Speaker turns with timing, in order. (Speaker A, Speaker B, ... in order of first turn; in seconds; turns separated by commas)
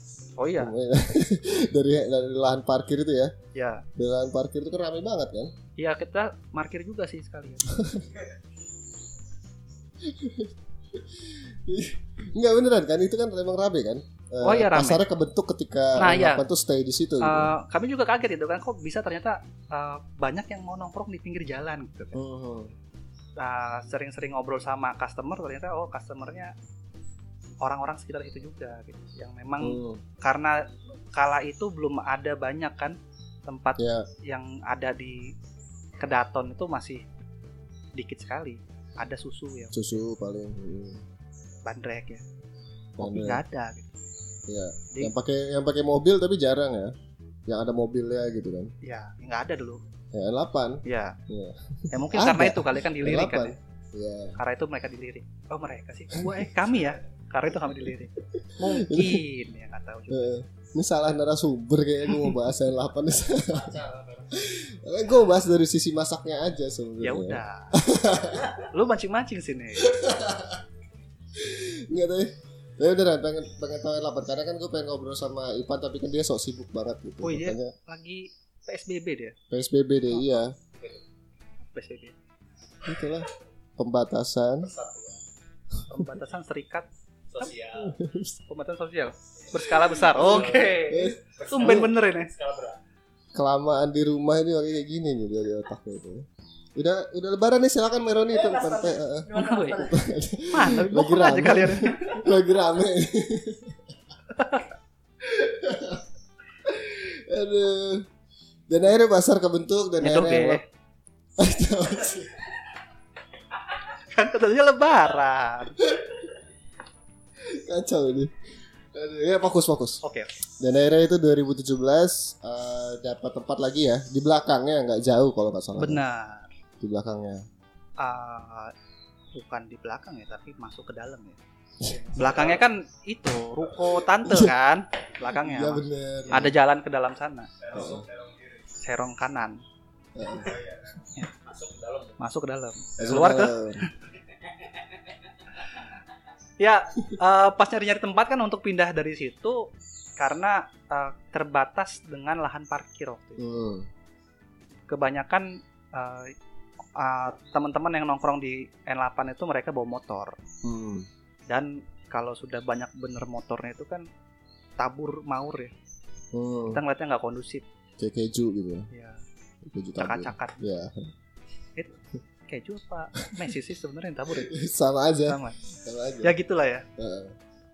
Speaker A: 0.4-0.7, Speaker B: 0.6-3.3, Speaker A: 3.5-3.8, Speaker B: 4.0-5.5, Speaker A: 5.8-7.7, Speaker B: 7.7-8.1, Speaker B: 10.0-17.5, Speaker A: 14.4-15.0, Speaker A: 16.0-16.4, Speaker A: 17.2-22.2, Speaker B: 22.1-22.7, Speaker A: 23.4-26.5, Speaker A: 27.6-35.3, Speaker B: 29.6-30.0, Speaker B: 33.8-34.1, Speaker A: 36.0-37.0, Speaker A: 37.9-39.8, Speaker B: 39.7-41.0, Speaker A: 41.6-42.2, Speaker B: 43.0-43.4, Speaker A: 43.0-44.0, Speaker B: 44.5-46.9, Speaker B: 47.5-48.7, Speaker A: 48.8-49.8, Speaker B: 50.1-54.4, Speaker A: 50.8-51.2, Speaker A: 51.9-53.5, Speaker A: 54.4-60.3, Speaker B: 56.1-56.5, Speaker B: 57.9-59.2, Speaker B: 60.1-63.8, Speaker C: 63.6-64.3, Speaker B: 64.4-68.5, Speaker A: 67.0-67.8, Speaker A: 68.6-69.9, Speaker B: 69.8-70.6, Speaker B: 71.4-77.7, Speaker A: 77.2-79.3, Speaker B: 79.5-80.5, Speaker A: 81.7-82.2, Speaker B: 82.8-84.7, Speaker C: 84.6-85.2, Speaker A: 85.9-86.9, Speaker C: 87.3-87.9, Speaker B: 87.8-88.4, Speaker A: 88.5-92.3, Speaker C: 89.7-92.8, Speaker B: 90.2-91.9, Speaker B: 93.3-96.2, Speaker B: 96.8-103.8, Speaker C: 99.3-99.8, Speaker A: 99.3-99.9, Speaker A: 100.5-102.2, Speaker A: 104.3-104.7, Speaker B: 105.2-106.0, Speaker B: 106.6-108.1, Speaker B: 108.7-110.6, Speaker A: 110.0-110.6, Speaker B: 111.4-112.4, Speaker A: 113.9-115.8, Speaker B: 115.8-116.2, Speaker B: 117.5-118.3, Speaker B: 118.9-120.0, Speaker A: 120.0-120.3, Speaker B: 120.6-126.0, Speaker A: 125.8-126.5, Speaker B: 126.8-127.4, Speaker A: 128.0-128.7, Speaker A: 129.3-131.4, Speaker B: 131.8-132.2, Speaker C: 132.0-132.6, Speaker A: 132.1-137.5, Speaker B: 134.2-134.5, Speaker B: 135.3-136.5, Speaker C: 137.6-138.7, Speaker B: 137.7-138.1, Speaker A: 138.8-139.6, Speaker B: 140.2-140.5, Speaker C: 140.3-142.2, Speaker A: 142.2-143.9, Speaker B: 143.0-143.9, Speaker A: 146.6-153.4, Speaker B: 153.4-153.9, Speaker A: 154.9-156.3, Speaker A: 156.9-160.4, Speaker B: 160.6-161.1, Speaker A: 161.5-164.1, Speaker A: 164.8-165.7, Speaker B: 166.3-166.8, Speaker A: 166.7-167.6, Speaker B: 168.0-168.9, Speaker A: 168.9-169.2, Speaker B: 169.7-171.1, Speaker A: 170.0-170.6, Speaker A: 171.8-174.5, Speaker B: 174.4-176.3, Speaker A: 175.2-175.6, Speaker A: 176.2-176.8, Speaker B: 177.0-177.3